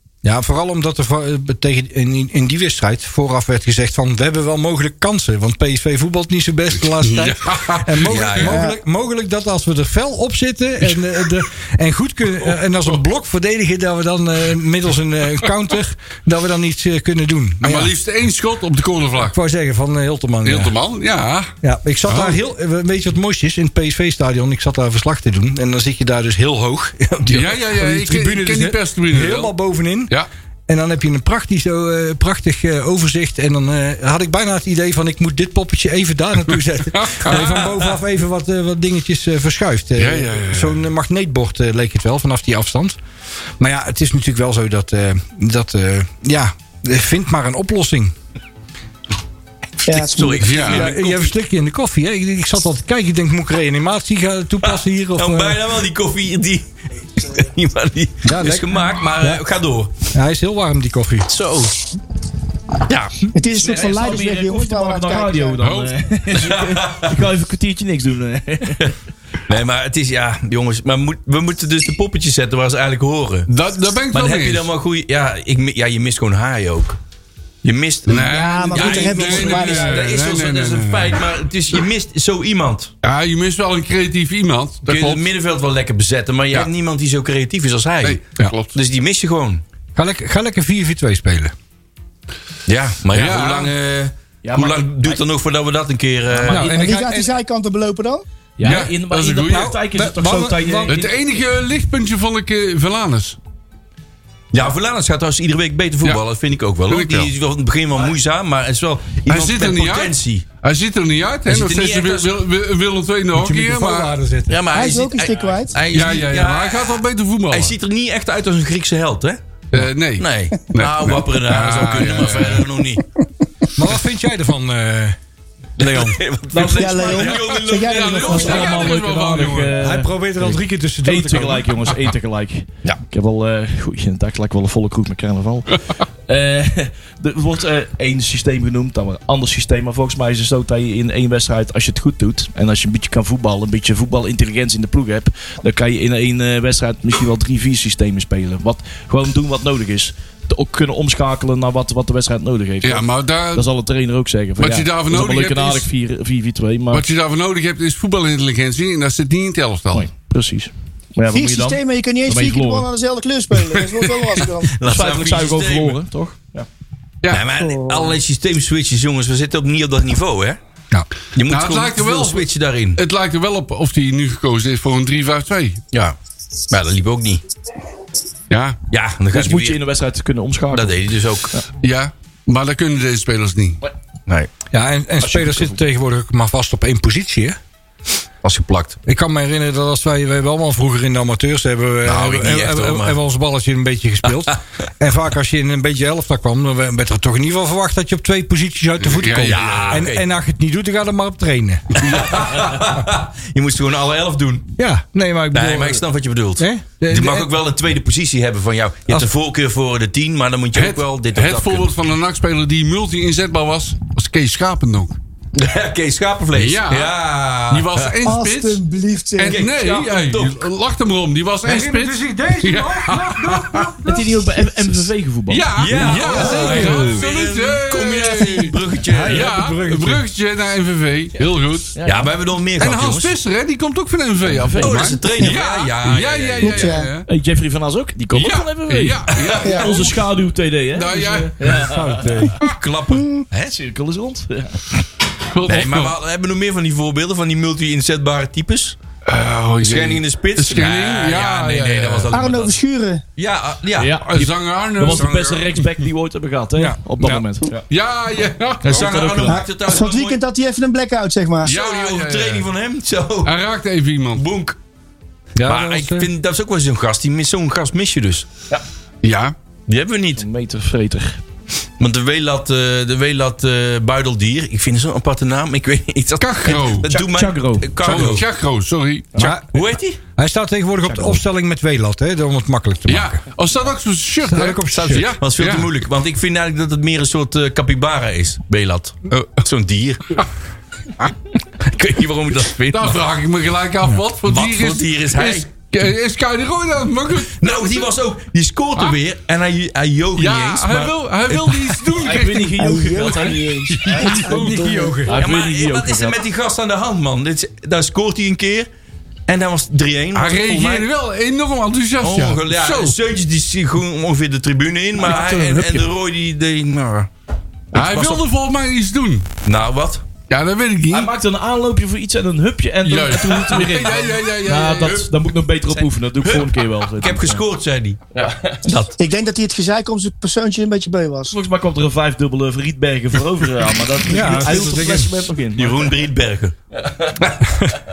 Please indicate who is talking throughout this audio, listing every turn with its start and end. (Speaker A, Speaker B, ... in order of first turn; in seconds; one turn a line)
Speaker A: 0.2-17.9
Speaker B: 7.0-8.4
Speaker C: 8.0-8.6
Speaker D: 8.4-8.8
Speaker B: 17.6-19.3
Speaker A: 19.2-20.8
Speaker B: 20.4-21.5
Speaker A: 21.6-30.1
Speaker B: 22.1-22.4
Speaker B: 27.3-29.5
Speaker A: 30.7-43.0
Speaker B: 36.9-37.5
Speaker C: 37.4-37.7
Speaker B: 40.0-40.8
Speaker A: 43.6-48.1
Speaker D: 49.9-50.6
Speaker C: 49.9-51.3
Speaker B: 50.4-50.9
Speaker A: 50.5-55.6
Speaker C: 54.6-60.0
Speaker A: 58.2-59.4
Speaker A: 60.1-61.3
Speaker C: 61.3-61.7
Speaker C: 62.9-63.3
Speaker D: 63.3-65.6
Speaker E: 63.6-68.9
Speaker B: 65.6-65.9
Speaker C: 66.3-67.2
Speaker C: 69.5-73.5
Speaker B: 73.5-74.7
Speaker C: 74.1-77.0
Speaker C: 77.6-82.9
Speaker B: 78.1-81.3
Speaker D: 78.2-80.0
Speaker B: 83.0-85.2
Speaker C: 84.9-88.2
Speaker B: 88.0-88.8
Speaker C: 88.7-89.6
Speaker A: 90.0-91.5
Speaker C: 92.7-96.7
Speaker B: 93.1-93.7
Speaker E: 94.4-95.2
Speaker E: 96.3-96.7
Speaker A: 96.4-97.3
Speaker D: 96.7-98.2
Speaker E: 98.6-101.1
Speaker B: 98.6-99.8
Speaker A: 99.5-101.0
Speaker B: 100.9-103.4
Speaker C: 104.5-110.5
Speaker B: 106.9-107.3
Speaker B: 109.3-114.2
Speaker C: 111.5-112.3
Speaker A: 113.3-114.6
Speaker C: 114.5-117.0
Speaker D: 114.7-115.8
Speaker B: 115.9-117.8
Speaker C: 117.5-119.4
Speaker B: 119.7-122.7
Speaker C: 120.2-123.0
Speaker A: 123.8-125.2
Speaker A: 125.8-126.2
Speaker C: 125.8-128.9
Speaker E: 126.5-127.4
Speaker D: 126.8-128.8
Speaker B: 127.2-129.8
Speaker E: 128.3-157.1
Speaker A: 129.8-131.8
Speaker B: 152.8-153.7
Speaker B: 154.6-155.9
Speaker B: 156.9-160.1
Speaker E: 159.9-162.9
Speaker D: 161.3-164.8
Speaker C: 164.8-166.0
Speaker E: 164.8-166.7
Speaker C: 167.3-170.6
Speaker D: 167.5-168.2
Speaker C: 171.3-173.0
Speaker B: 171.5-175.8
Speaker C: 176.7-177.4
Speaker B: 178.5-178.8
Speaker C: 178.9-179.8
Speaker E: 179.3-181.0
Speaker C: 180.7-181.5
Speaker B: 181.8-183.8
Speaker A: 184.7-187.6
Speaker E: 185.3-185.8
Speaker C: 188.4-189.0
Speaker A: 189.1-202.2
Speaker C: 192.1-193.2
Speaker B: 199.0-200.1
Speaker C: 199.4-200.2
Speaker C: 202.0-204.7
Speaker A: 204.8-206.0
Speaker C: 205.5-211.9
Speaker A: 206.6-207.5
Speaker B: 210.8-215.2
Speaker C: 215.6-218.1
Speaker B: 216.6-217.2
Speaker B: 217.7-218.8
Speaker D: 218.2-219.6
Speaker B: 219.4-223.9
Speaker C: 219.5-220.7
Speaker A: 221.6-225.1
Speaker E: 224.1-225.8
Speaker B: 225.5-232.0
Speaker C: 225.8-229.5
Speaker A: 226.0-227.2
Speaker A: 229.1-230.2
Speaker E: 232.0-232.3
Speaker C: 232.1-233.3
Speaker B: 232.8-237.3
Speaker E: 234.4-235.2
Speaker C: 234.8-237.0
Speaker D: 236.6-237.1
Speaker E: 237.3-242.5
Speaker B: 238.3-240.2
Speaker C: 239.3-240.0
Speaker B: 240.9-241.9
Speaker A: 241.6-242.6
Speaker C: 242.6-243.8
Speaker D: 243.2-243.4
Speaker E: 243.7-244.8
Speaker B: 245.5-246.2
Speaker C: 245.6-249.0
Speaker B: 249.3-252.3
Speaker C: 249.8-252.8
Speaker D: 252.3-253.2
Speaker C: 253.4-254.2
Speaker E: 253.9-257.9
Speaker B: 254.2-255.9
Speaker C: 255.1-255.6
Speaker A: 256.8-257.4
Speaker B: 257.9-259.4
Speaker E: 258.8-259.6
Speaker C: 258.9-260.4
Speaker D: 259.5-261.7
Speaker B: 261.6-262.7
Speaker C: 261.7-263.5
Speaker B: 263.4-264.4
Speaker C: 264.4-264.8
Speaker A: 265.6-266.3
Speaker C: 265.7-268.5
Speaker B: 269.2-269.6
Speaker C: 269.9-270.4
Speaker E: 270.4-271.4
Speaker C: 272.0-278.5
Speaker B: 276.4-277.1
Speaker E: 277.1-278.3
Speaker B: 278.0-279.3
Speaker C: 279.4-280.2
Speaker A: 279.4-279.7
Speaker A: 280.4-283.4
Speaker E: 281.1-281.4
Speaker B: 283.1-285.9
Speaker A: 284.4-285.3
Speaker C: 285.0-290.4
Speaker B: 289.3-289.6
Speaker C: 291.8-293.2
Speaker B: 292.9-298.1
Speaker C: 294.5-295.7
Speaker C: 297.5-302.0
Speaker B: 300.4-302.9
Speaker E: 302.2-304.4
Speaker D: 302.8-305.2
Speaker B: 303.9-305.1
Speaker A: 304.1-305.4
Speaker E: 305.2-306.4
Speaker C: 305.3-308.9
Speaker C: 309.5-311.1
Speaker B: 310.3-313.2
Speaker C: 312.2-317.3
Speaker B: 315.3-315.7
Speaker E: 315.3-316.1
Speaker C: 317.9-318.4
Speaker B: 317.9-319.5
Speaker C: 319.6-320.2
Speaker B: 320.5-321.3
Speaker E: 321.1-327.6
Speaker B: 323.1-325.3
Speaker C: 326.0-328.2
Speaker E: 328.3-328.9
Speaker C: 328.9-329.2
Speaker D: 329.2-331.6
Speaker E: 331.5-336.2
Speaker A: 334.3-335.5
Speaker C: 335.8-336.8
Speaker C: 337.4-337.7